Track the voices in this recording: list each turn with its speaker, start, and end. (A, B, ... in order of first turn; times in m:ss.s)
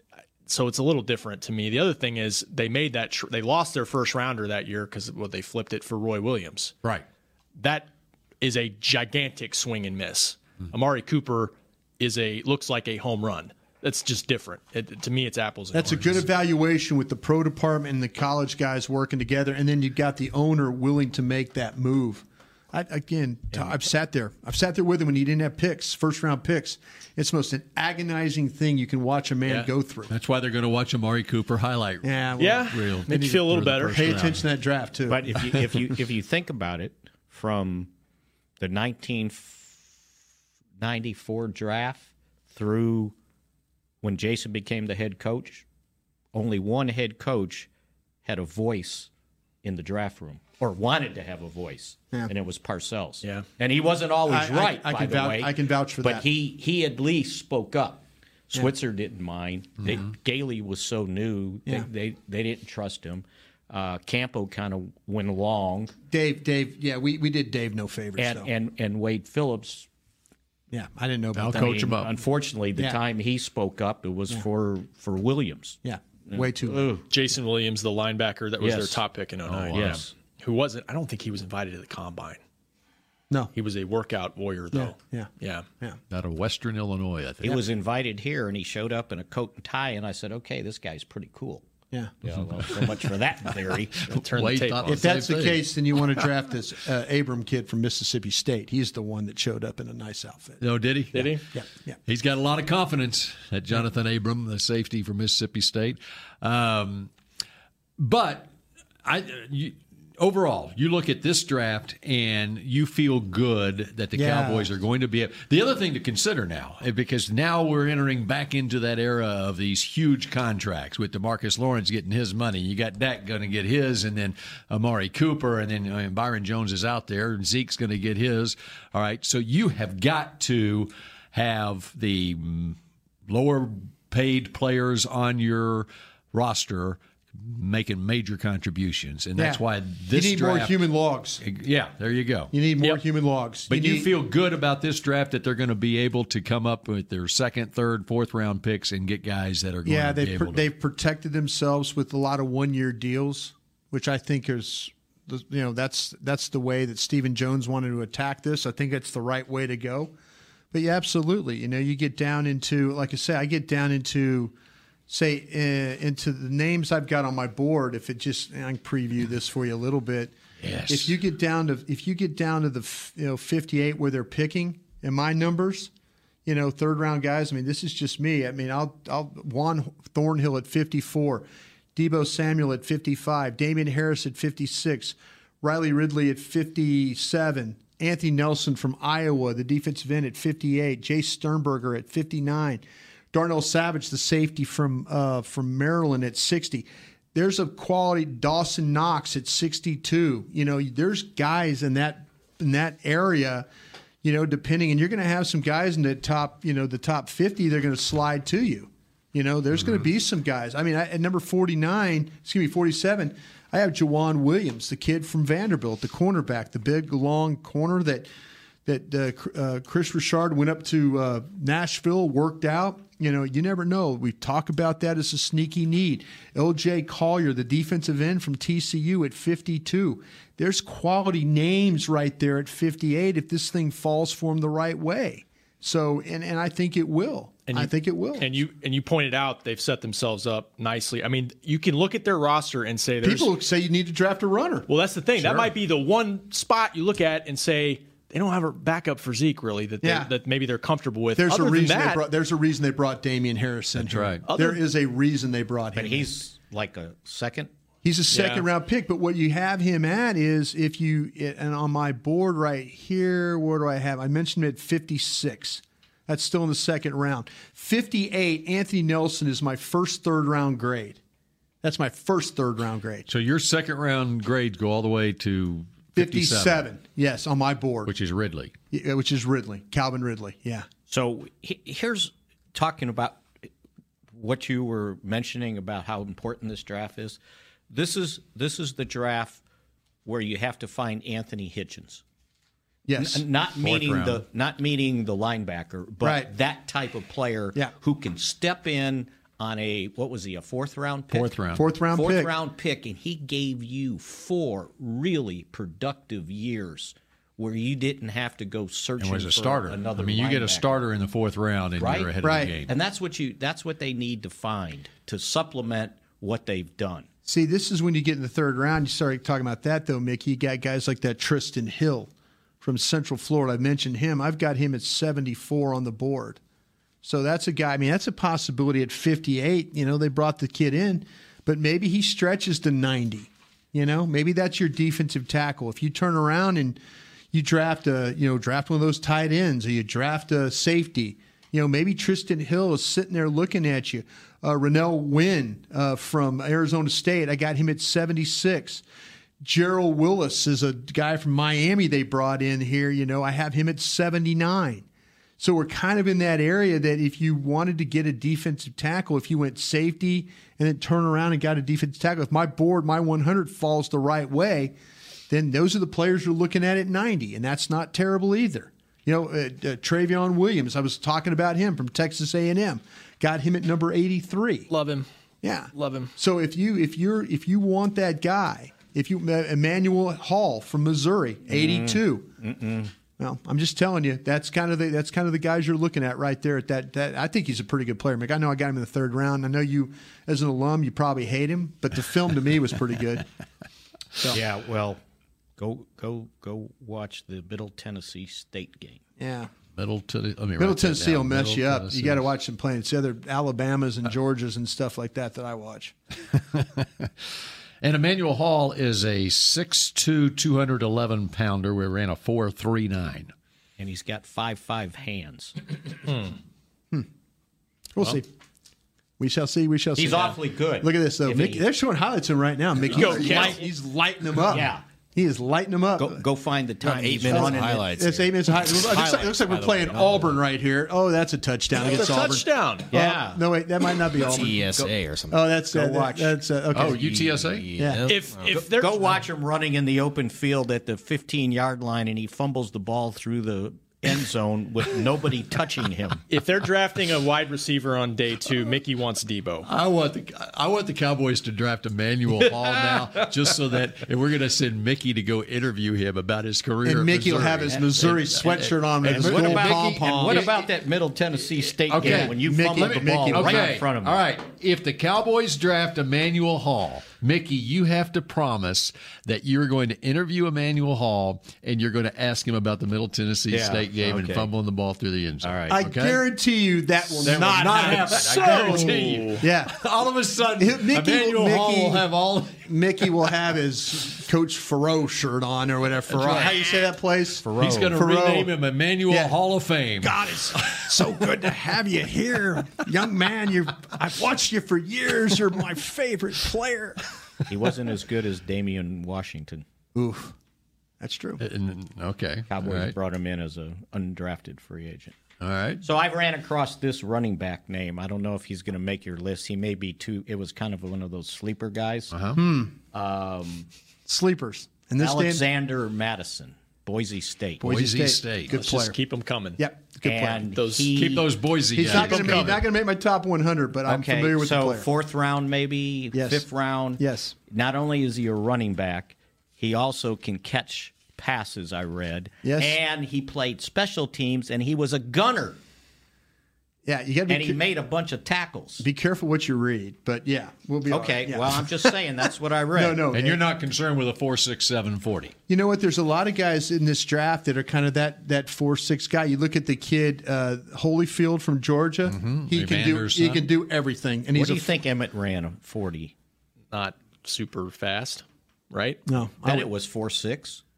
0:00.5-0:06.7 A
0:07.6-0:16.3 A
0:15.7-0:30.1 B
0:15.8-0:16.1 C
0:30.1-0:32.1 C
0:32.0-0:35.5 B
0:32.4-0:34.4 A
0:32.6-0:34.4 C
0:35.1-0:37.9 D
0:38.6-0:39.8 D
0:40.8-0:43.2 D
0:44.0-0:45.6 D
0:46.3-0:47.7 D
0:48.2-0:49.1 D
0:49.6-1:05.9 D
0:54.3-0:56.3 B
1:06.1-1:08.5 B
1:08.2-1:09.9 D
1:10.7-1:12.0 B
1:11.4-1:12.1 C
1:11.5-1:17.1 D
1:15.8-1:16.9 B
1:17.1-1:22.4 A
1:18.6-1:19.0 D
1:19.5-1:20.0 C
1:19.7-1:20.1 D
1:23.6-1:25.7 A
1:24.7-1:25.3 B
1:26.1-1:27.6 C
1:27.4-1:31.7 D
1:32.2-1:34.2 D
1:34.1-1:35.3 A
1:34.3-1:35.7 C
1:34.9-1:40.6 B
1:40.6-1:41.4 C
1:41.1-1:41.4 A
1:41.5-1:42.0 B
1:42.1-1:47.1 C
1:48.0-1:48.5 C
1:49.0-2:20.8 C
1:54.1-1:54.7 B
2:19.4-2:21.4 B
2:21.4-2:22.9 C
2:22.5-2:24.1 B
2:23.7-2:30.7 C
2:29.8-2:40.1 B
2:40.7-2:44.5 B
2:45.1-2:50.3 B
2:50.6-2:51.2 C
2:50.9-2:55.9 B
2:56.4-3:23.7 B
3:24.2-3:38.3 B
3:38.9-3:58.5 B
3:57.7-4:03.5 A
4:03.2-4:04.9 B
4:04.9-4:12.2 A
4:10.0-4:10.3 B
4:11.4-4:16.3 B
4:14.0-4:14.4 C
4:14.5-4:14.8 A
4:15.9-4:17.7 D
4:18.0-4:31.2 B
4:18.3-4:18.7 A
4:31.8-4:33.3 B
4:33.3-4:36.8 C
4:36.2-4:38.1 B
4:38.1-4:38.7 C
4:38.9-4:40.9 B
4:41.1-4:43.5 D
4:44.3-4:47.4 D
4:47.9-4:49.6 D
4:50.2-4:52.2 D
4:53.1-4:53.4 B
4:53.2-5:01.5 D
4:53.8-4:54.4 C
4:56.2-4:56.5 B
5:01.3-5:01.8 C
5:01.7-5:02.5 B
5:02.1-5:11.1 D
5:09.2-5:12.9 C
5:12.0-5:17.3 D
5:12.4-5:12.8 B
5:17.5-5:26.6 B
5:27.2-5:37.0 B
5:37.5-5:49.0 B
5:49.6-5:55.1 B
5:55.6-6:05.0 B
6:05.5-6:14.9 B
6:14.9-6:15.3 A
6:15.6-6:22.5 B
6:15.9-6:16.3 A
6:21.7-6:23.1 D
6:23.4-6:33.4 B
6:34.5-6:35.2 D
6:35.8-6:39.2 D
6:39.4-6:39.7 B
6:40.0-6:42.5 C
6:40.8-6:46.2 B
6:46.7-6:47.3 C
6:48.0-6:53.5 C
6:54.0-6:55.8 D
6:58.2-6:58.5 B
6:59.4-7:06.4 B
7:00.2-7:01.9 D
7:03.1-7:03.8 A
7:03.2-7:03.8 D
7:04.6-7:05.0 D
7:06.2-7:08.2 D
7:07.0-7:10.6 E
7:07.5-7:14.9 B
7:12.0-7:13.1 A
7:13.1-7:13.6 D
7:14.4-7:15.7 E
7:14.6-7:15.1 D
7:15.5-7:18.3 B
7:15.9-7:16.6 D
7:16.9-7:18.0 C
7:17.4-7:18.7 E
7:18.3-7:19.3 A
7:18.7-7:26.4 D
7:26.5-7:29.9 A
7:29.8-7:40.9 C
7:37.0-7:40.8 B
7:39.2-7:44.4 D
7:42.0-7:56.4 C
7:42.2-7:44.0 B
7:53.7-7:54.7 D
7:55.6-7:56.0 D
7:55.9-8:00.0 B
7:57.4-8:02.8 C
7:57.5-7:59.6 A
8:00.8-8:08.7 B
8:06.4-8:07.0 A
8:06.5-8:06.7 C
8:07.6-8:08.1 D
8:07.7-8:11.0 C
8:09.3-8:09.6 B
8:10.2-8:17.2 B
8:17.7-8:19.8 D
8:20.2-8:20.6 B
8:21.2-8:21.6 B
8:21.6-8:23.1 C
8:22.7-8:25.4 D
8:25.6-8:26.0 C
8:26.0-8:32.3 D
8:32.3-8:32.6 C
8:32.6-8:33.0 B
8:33.1-8:33.9 D
8:34.3-8:35.6 B
8:35.2-8:37.9 D
8:37.8-8:39.2 B
8:37.8-8:38.7 C
8:38.7-8:39.8 A
8:39.8-8:40.7 B
8:40.2-8:41.5 D
8:40.7-8:41.3 A
8:41.1-8:42.8 C
8:41.9-8:45.1 B
8:42.1-8:42.7 A
8:44.1-8:55.8 D
8:46.3-8:46.7 B
8:47.2-8:47.6 B
8:52.6-8:53.0 B
8:57.0-8:57.8 B
8:57.5-8:59.0 D
8:59.0-9:02.1 B
9:01.1-9:03.3 D
9:02.9-9:03.6 B
9:03.3-9:05.6 C
9:05.7-9:15.0 B
9:12.2-9:13.7 C
9:14.6-9:16.3 D
9:16.9-9:19.2 A
9:19.3-9:19.9 B
9:19.6-9:20.8 D